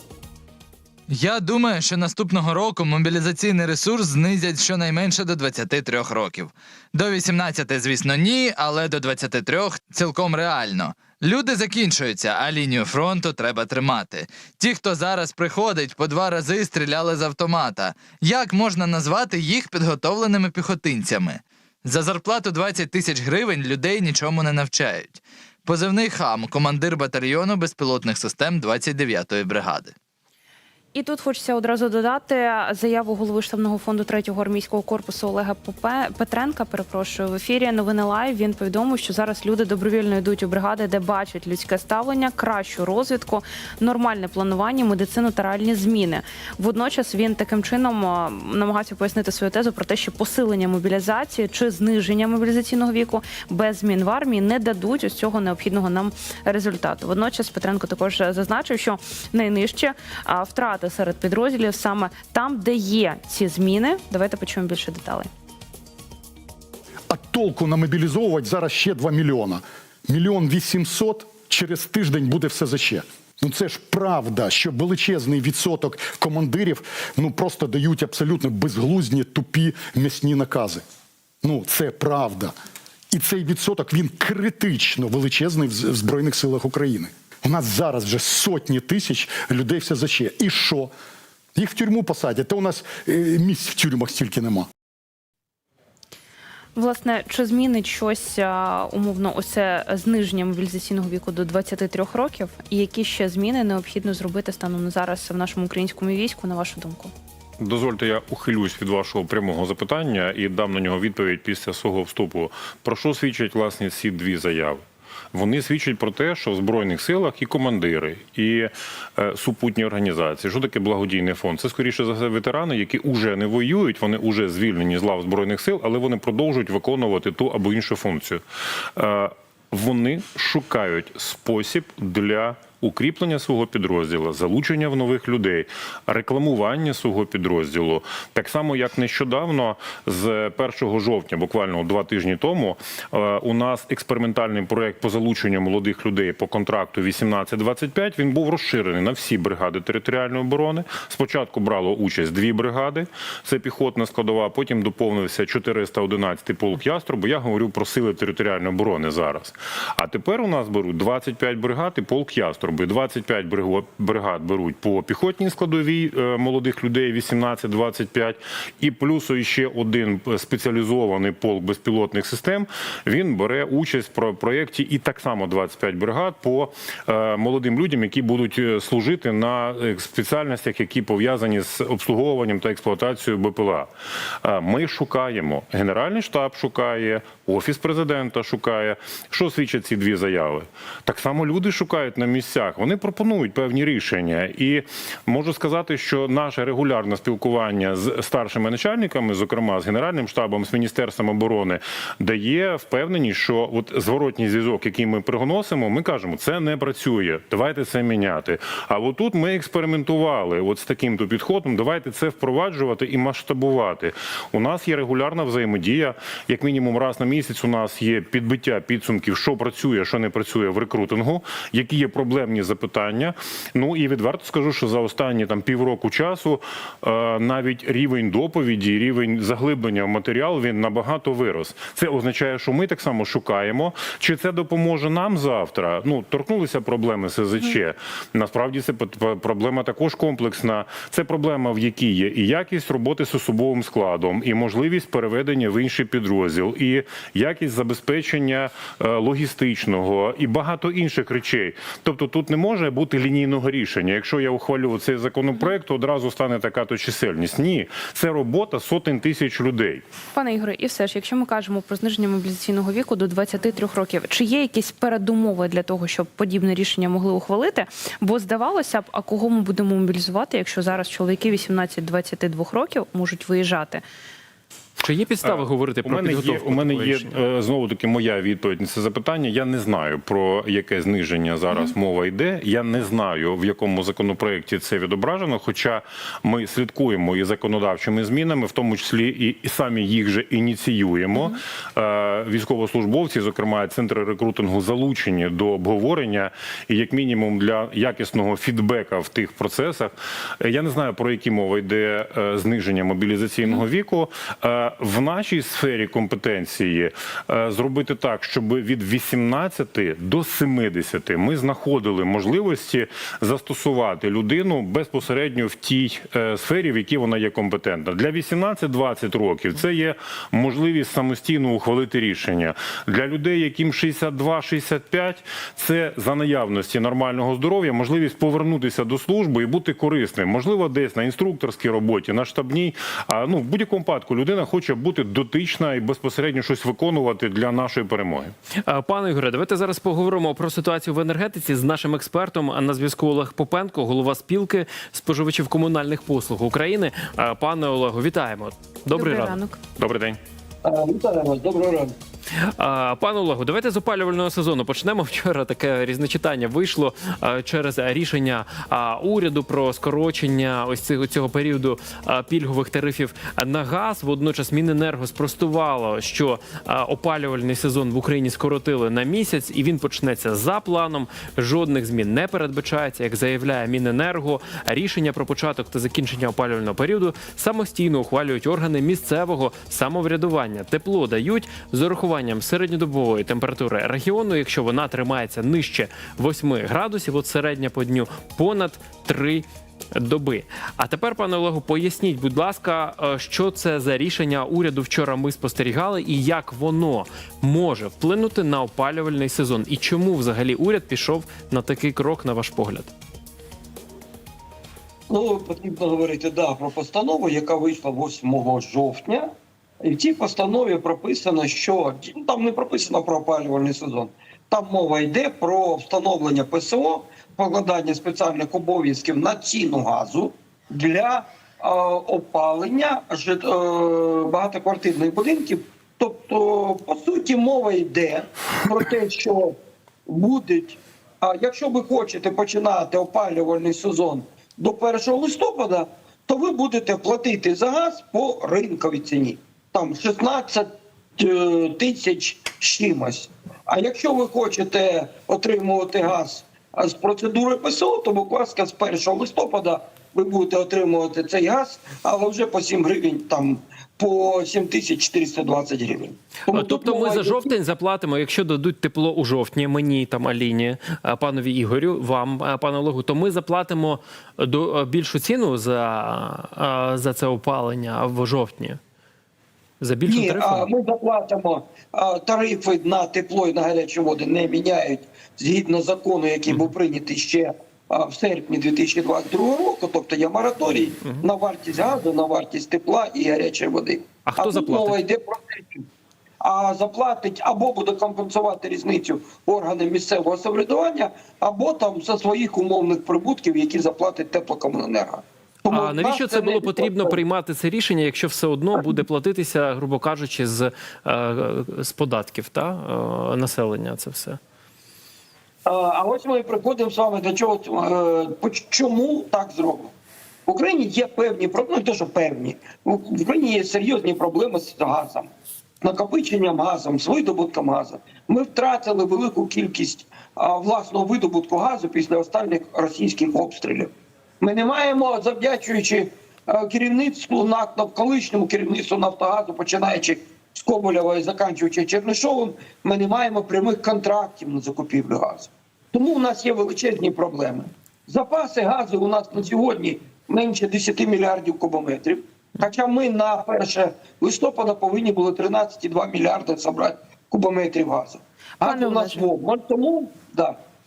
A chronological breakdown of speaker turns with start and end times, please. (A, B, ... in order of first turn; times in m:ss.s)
0:01.1-0:29.9 A
0:30.9-1:05.3 B
1:07.1-1:20.8 C
1:21.4-1:22.5 C
1:23.1-1:30.9 C
1:31.5-1:34.7 C
1:36.7-1:47.1 B
1:47.6-2:08.4 D
2:09.0-3:03.9 D
3:04.4-4:20.0 D
4:20.3-4:34.0 B
4:35.0-4:37.4 E
4:35.4-5:38.5 D
5:38.7-5:49.6 E
5:49.1-5:49.8 B
5:50.0-5:50.4 D
5:50.8-5:52.1 F
5:52.5-6:43.1 E
6:45.3-6:49.5 F
6:50.0-7:09.8 F
7:10.3-7:37.7 F
7:36.7-7:49.0 E
7:50.0-7:50.9 E
7:50.3-8:06.1 F
8:04.4-8:05.2 E
8:06.6-8:17.4 F
8:15.9-8:24.6 E
8:19.0-8:19.2 F
8:25.8-8:30.1 F
8:30.7-8:35.5 F
8:36.0-9:10.8 F
9:08.8-9:09.5 B